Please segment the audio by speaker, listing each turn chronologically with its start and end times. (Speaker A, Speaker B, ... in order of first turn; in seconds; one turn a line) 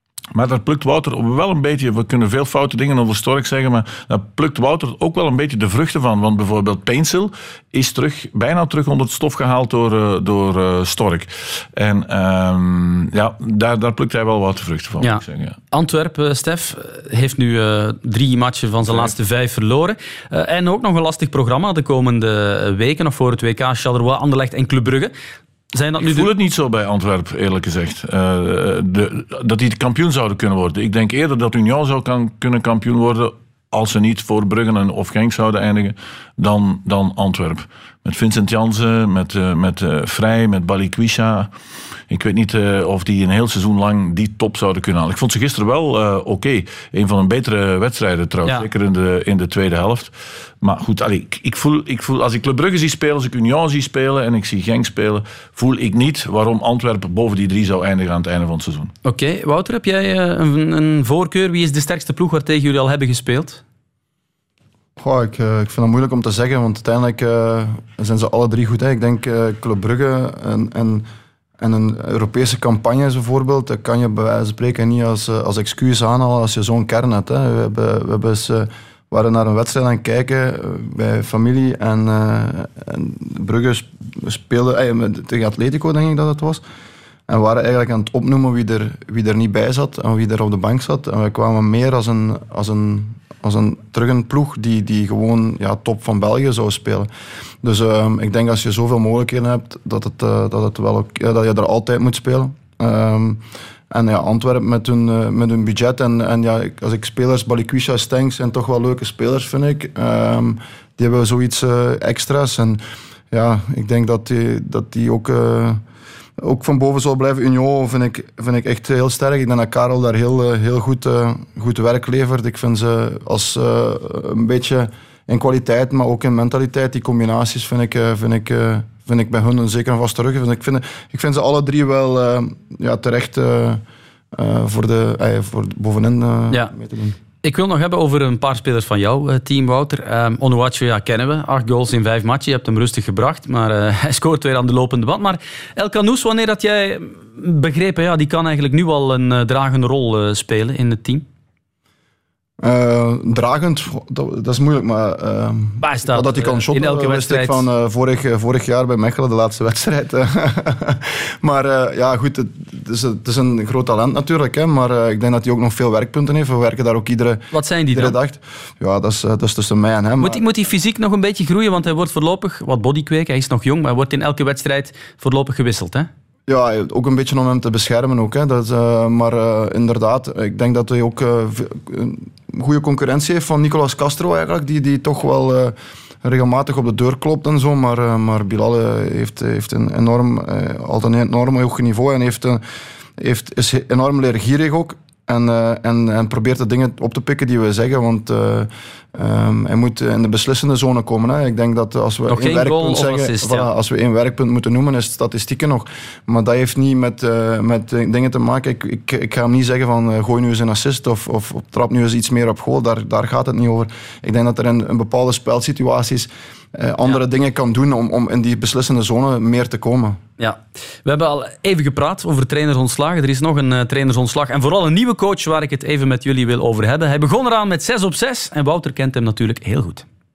Speaker A: 0.3-15.6
Speaker B: 15.0-25.1
Speaker B: 25.7-26.3
Speaker A: 26.0-41.5
Speaker A: 42.1-58.9
Speaker B: 59.0-63.6
Speaker C: 65.0-71.1
Speaker C: 71.6-86.6
Speaker C: 87.3-97.1
Speaker C: 97.6-115.8
Speaker C: 116.4-137.2
Speaker B: 137.4-151.2
Speaker C: 152.6-170.4
Speaker B: 155.8-157.6
Speaker B: 167.5-168.2
Speaker B: 170.2-176.1
Speaker C: 176.5-192.6
Speaker C: 193.2-220.2
Speaker B: 202.3-203.7
Speaker B: 220.4-230.1